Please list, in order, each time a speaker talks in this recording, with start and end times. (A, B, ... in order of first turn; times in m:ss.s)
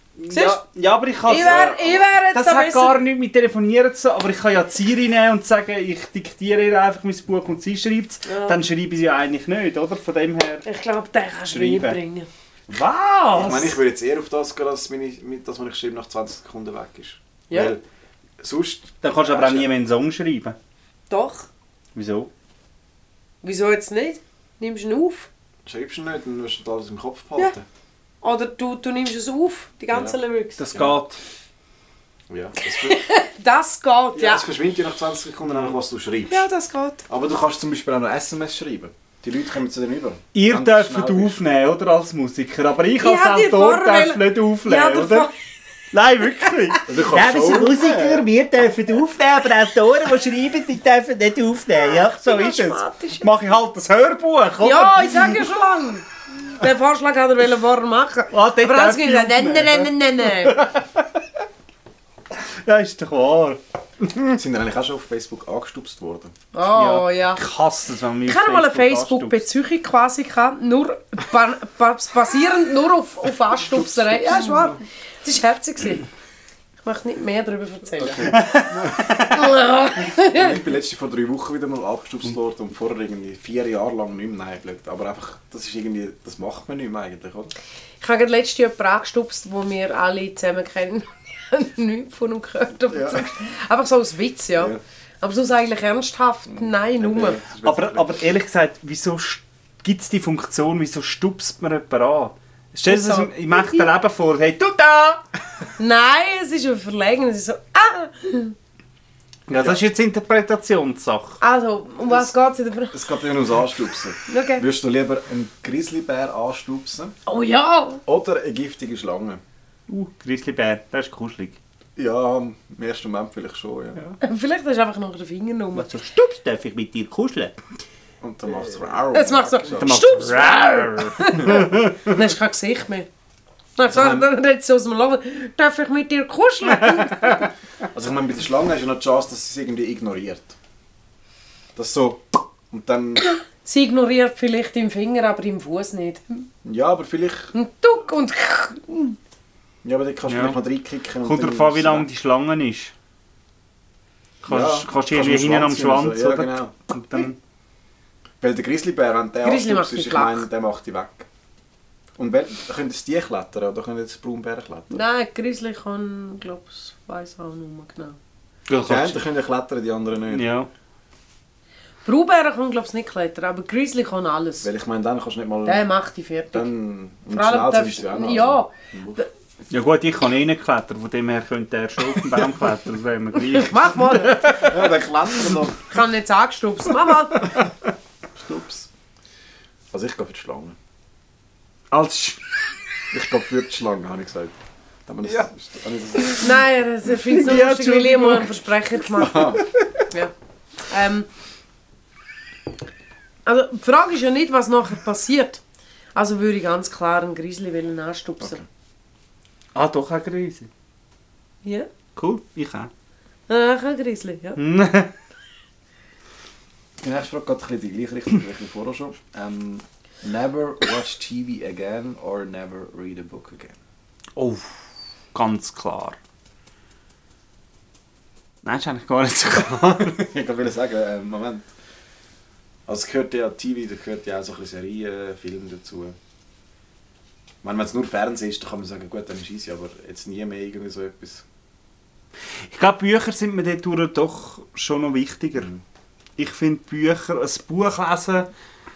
0:00.2-0:01.8 A
0:00.3-0:00.6 B
0:01.3-0:03.0 B
0:01.3-0:02.0 C
0:02.3-0:10.6 A
0:08.3-0:08.6 B
0:10.6-0:12.3 B
0:11.5-0:12.0 A
0:12.7-0:13.8 A
0:13.3-0:17.8 C
0:17.5-0:17.7 B
0:18.4-0:19.7 C
0:19.0-0:20.6 A
0:21.1-0:21.5 B
0:21.9-0:22.3 A
0:23.4-0:25.3 B
0:25.6-0:27.6 C
0:28.2-0:30.6 B
0:29.9-0:30.2 C
0:30.6-0:31.2 A
0:30.7-0:31.0 C
0:32.3-0:33.0 C
0:32.6-0:34.4 B
0:34.1-0:36.5 C
0:36.3-0:37.0 B
0:37.1-0:41.4 C
0:40.3-0:45.3 A
0:43.0-0:45.3 B
0:45.9-0:55.5 A
0:46.8-0:48.2 C
0:51.8-0:53.3 B
0:54.6-1:00.6 B
0:58.3-1:01.2 A
1:02.4-1:04.3 A
1:04.3-1:06.3 C
1:06.5-1:07.4 B
1:06.7-1:09.4 A
1:08.2-1:16.1 B
1:13.7-1:14.8 C
1:16.8-1:18.5 B
1:18.1-1:19.2 C
1:18.2-1:19.3 A
1:19.1-1:20.6 B
1:20.1-1:27.5 C
1:28.0-1:37.4 B
1:32.9-1:33.3 C
1:36.5-1:38.1 C
1:37.6-1:45.2 A
1:42.8-1:43.9 B
1:45.8-1:48.5 B
1:49.5-1:49.8 C
1:49.5-1:51.4 A
1:51.4-1:53.0 B
1:52.9-1:57.1 C
1:54.3-1:54.6 B
1:57.2-1:58.0 B
1:58.0-1:59.4 C
1:59.9-2:01.6 A
2:02.0-2:04.0 C
2:04.2-2:05.9 B
2:05.7-2:07.5 A
2:08.2-2:10.4 C
2:09.1-2:13.1 B
2:09.7-2:12.2 A
2:13.8-2:17.5 B
2:13.9-2:14.3 C
2:17.8-2:20.6 C
2:21.8-2:23.3 C
2:23.6-2:26.5 B
2:26.6-2:27.5 C
2:27.5-2:29.2 B
2:29.8-2:32.1 C
2:30.3-2:30.6 A
2:31.2-2:32.9 A
2:34.4-2:37.4 A
2:34.5-2:36.7 C
2:38.4-2:41.3 C
2:39.4-2:40.4 B
2:42.2-2:45.0 C
2:44.9-2:48.2 B
2:48.7-2:49.2 A
2:48.8-2:50.5 C
2:50.3-2:50.7 A
2:52.0-2:54.7 B
2:54.6-2:55.8 C
2:55.6-2:56.7 B
2:56.5-2:59.2 C
2:57.3-2:59.3 B
2:59.7-3:04.8 A
3:03.4-3:04.7 B
3:04.6-3:05.8 C
3:05.9-3:07.5 B
3:08.4-3:08.9 C
3:09.9-3:10.8 C
3:11.9-3:12.4 C
3:13.1-3:16.5 C
3:16.1-3:16.6 A
3:16.4-3:20.3 B
3:17.1-3:18.6 A
3:19.1-3:19.7 C
3:20.8-3:21.3 B
3:23.4-3:25.6 B
3:26.1-3:28.6 B
3:28.4-3:28.6 C
3:29.7-3:30.7 A
3:31.6-3:31.9 B
3:32.2-3:32.9 A
3:33.5-3:34.6 B
3:34.6-3:35.1 A
3:37.0-3:43.8 C
3:44.4-3:44.8 A
3:45.3-3:46.2 A
3:48.6-3:50.2 A
3:49.9-3:51.7 C
3:52.9-3:56.2 C
3:57.6-4:01.4 C
4:02.6-4:05.7 A
4:06.4-4:08.5 A